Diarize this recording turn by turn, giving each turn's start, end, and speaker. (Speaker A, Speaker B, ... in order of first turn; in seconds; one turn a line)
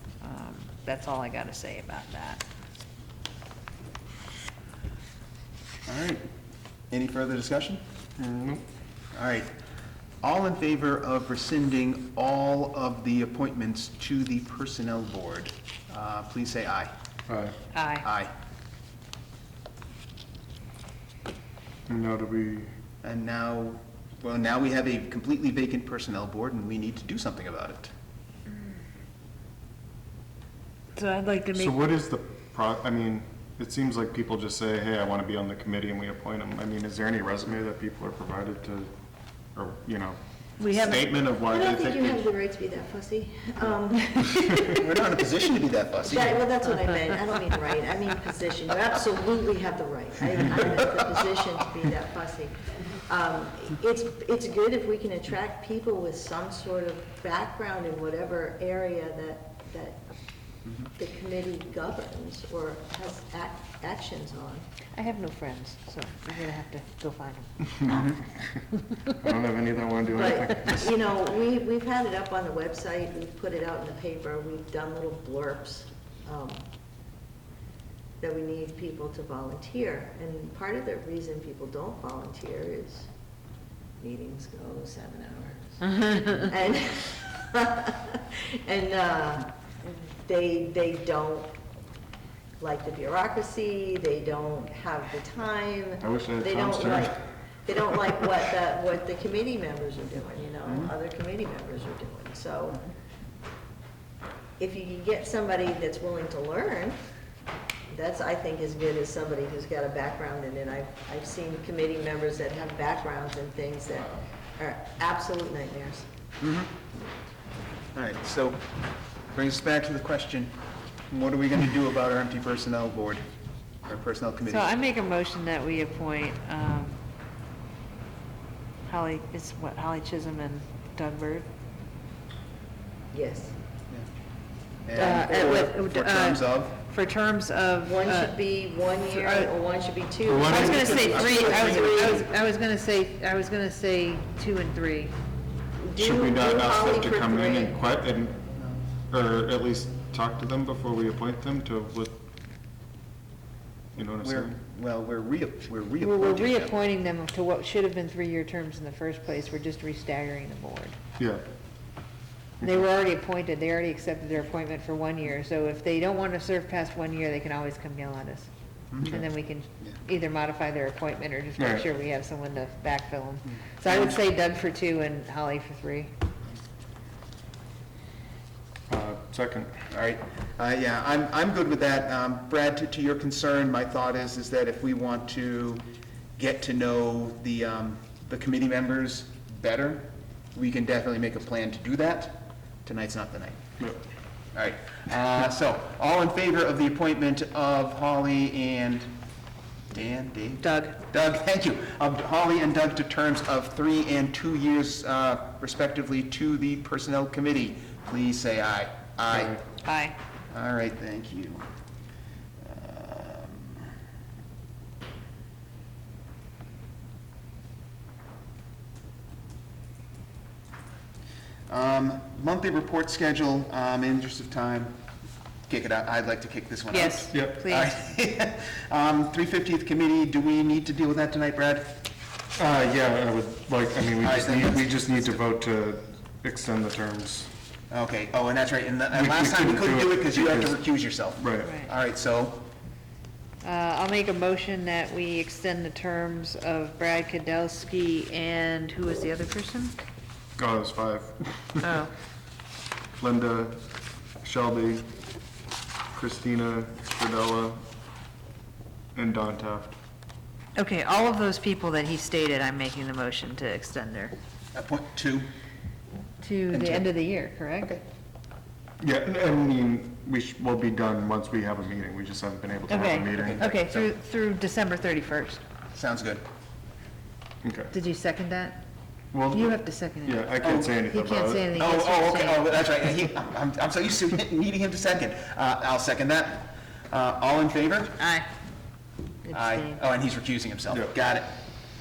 Speaker A: 0.2-2.4
Speaker B: 5.9-6.3
Speaker B: 6.9-7.8
Speaker C: 8.2-8.6
Speaker B: 9.1-9.5
Speaker B: 10.2-16.9
Speaker C: 17.3-17.5
Speaker A: 17.7-18.1
Speaker B: 18.0-18.3
Speaker C: 21.9-22.7
Speaker B: 23.0-27.9
Speaker A: 30.9-31.9
Speaker C: 31.5-38.9
Speaker C: 39.5-42.3
Speaker A: 40.6-41.0
Speaker D: 40.9-44.8
Speaker B: 44.4-46.5
Speaker D: 46.0-60.1
Speaker D: 61.0-64.7
Speaker A: 65.0-68.1
Speaker B: 67.9-68.2
Speaker C: 69.1-70.9
Speaker D: 70.1-76.6
Speaker D: 78.2-83.1
Speaker D: 84.0-91.5
Speaker D: 92.6-102.8
Speaker C: 96.0-97.2
Speaker B: 100.7-100.9
Speaker D: 104.6-107.0
Speaker D: 107.9-116.1
Speaker B: 116.4-116.7
Speaker B: 118.0-118.6
Speaker B: 119.3-120.5
Speaker B: 121.1-123.2
Speaker B: 123.8-124.7
Speaker A: 124.5-127.0
Speaker A: 128.9-131.5
Speaker D: 133.1-133.6
Speaker B: 134.9-136.8
Speaker D: 135.0-135.6
Speaker A: 135.0-139.5
Speaker D: 137.8-142.2
Speaker C: 140.2-141.2
Speaker B: 140.4-142.2
Speaker A: 140.4-145.2
Speaker D: 145.8-147.8
Speaker C: 146.0-148.4
Speaker C: 149.1-152.2
Speaker C: 154.0-154.5
Speaker B: 154.2-156.9
Speaker A: 156.0-161.0
Speaker A: 162.6-168.5
Speaker B: 168.9-169.2
Speaker A: 169.0-176.1
Speaker C: 171.6-171.9
Speaker B: 173.8-174.2
Speaker C: 178.9-179.7
Speaker B: 179.9-185.8
Speaker B: 186.4-193.6
Speaker B: 194.6-199.1
Speaker B: 199.9-209.6
Speaker A: 200.6-201.0
Speaker A: 209.8-210.2
Speaker B: 210.5-211.6
Speaker B: 212.6-213.9
Speaker B: 221.7-225.0
Speaker B: 225.7-232.0
Speaker A: 226.9-227.9
Speaker C: 227.3-227.6
Speaker C: 232.6-237.5
Speaker B: 234.2-235.4
Speaker B: 237.9-242.6
Speaker C: 239.1-240.8
Speaker C: 241.4-241.7
Speaker A: 241.6-241.9
Speaker A: 243.6-249.9
Speaker C: 250.6-251.8
Speaker A: 251.8-252.1
Speaker C: 253.2-253.8
Speaker C: 254.4-255.1
Speaker C: 256.1-257.8
Speaker C: 259.1-260.0
Speaker A: 260.8-264.3
Speaker B: 264.8-265.5
Speaker A: 266.4-268.0
Speaker B: 266.7-267.1
Speaker C: 269.0-273.7
Speaker A: 272.9-275.6
Speaker B: 273.3-274.1
Speaker B: 275.9-276.4
Speaker C: 277.6-277.9
Speaker A: 277.9-278.8
Speaker C: 279.3-281.7
Speaker A: 279.5-282.7
Speaker B: 280.6-280.9
Speaker B: 281.7-288.1
Speaker A: 288.2-288.5
Speaker B: 289.5-291.5
Speaker A: 289.6-289.9